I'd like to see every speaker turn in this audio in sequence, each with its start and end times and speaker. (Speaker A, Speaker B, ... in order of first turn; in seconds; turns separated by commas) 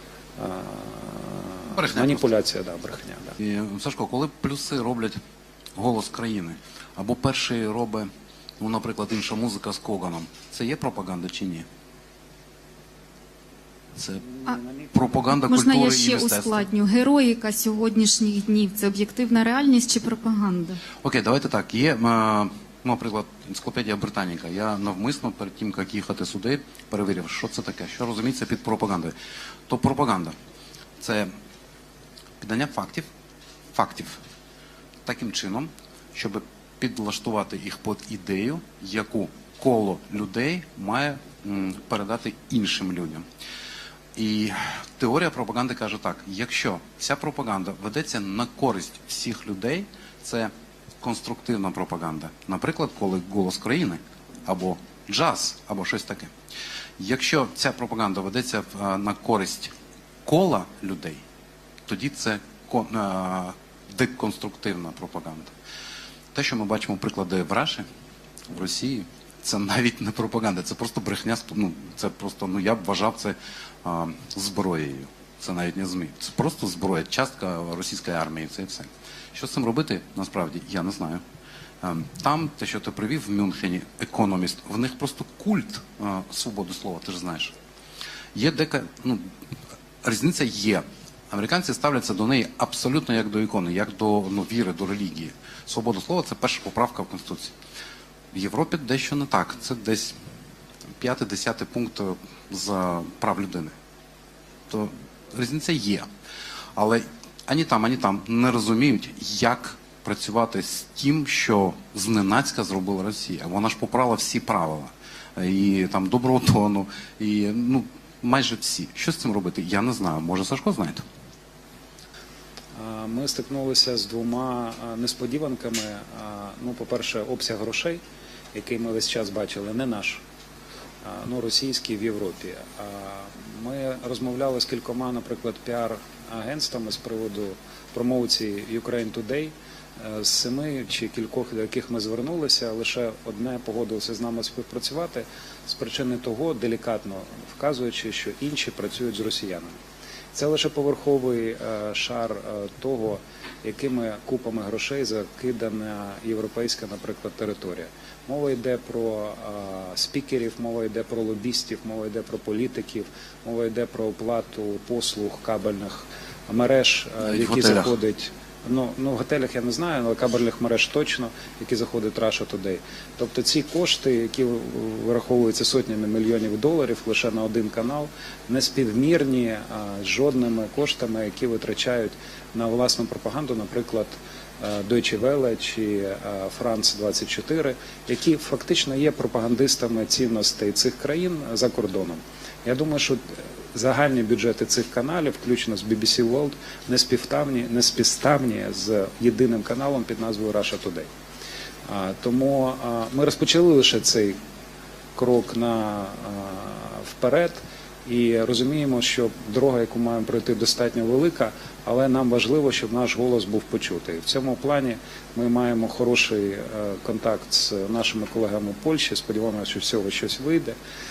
Speaker A: 0.4-3.4, Speaker B: 1.7-2.3, Speaker B: 3.4-5.2, Speaker B: 5.8-11.7, Speaker B: 13.9-14.2, Speaker A: 14.2-15.2, Speaker B: 14.9-16.7, Speaker C: 15.3-20.8, Speaker B: 21.0-29.1, Speaker B: 29.7-30.3, Speaker B: 31.0-31.3, Speaker B: 32.4-33.1, Speaker B: 33.7-34.2, Speaker B: 35.0-43.2, Speaker B: 44.1-56.3, Speaker B: 57.0-59.7, Speaker B: 60.2-61.2, Speaker B: 61.9-65.5, Speaker B: 66.3-67.9, Speaker B: 68.5-81.2, Speaker B: 81.8-87.5, Speaker B: 88.3-89.3, Speaker B: 90.0-97.5, Speaker B: 98.3-100.1, Speaker B: 101.0-103.7, Speaker B: 104.7-106.1, Speaker B: 106.7-121.0, Speaker A: 122.7-128.0, Speaker A: 128.5-130.2, Speaker A: 131.0-149.7, Speaker A: 150.3-201.1, Speaker B: 167.2-167.9, Speaker A: 201.9-204.4, Speaker A: 205.2-220.8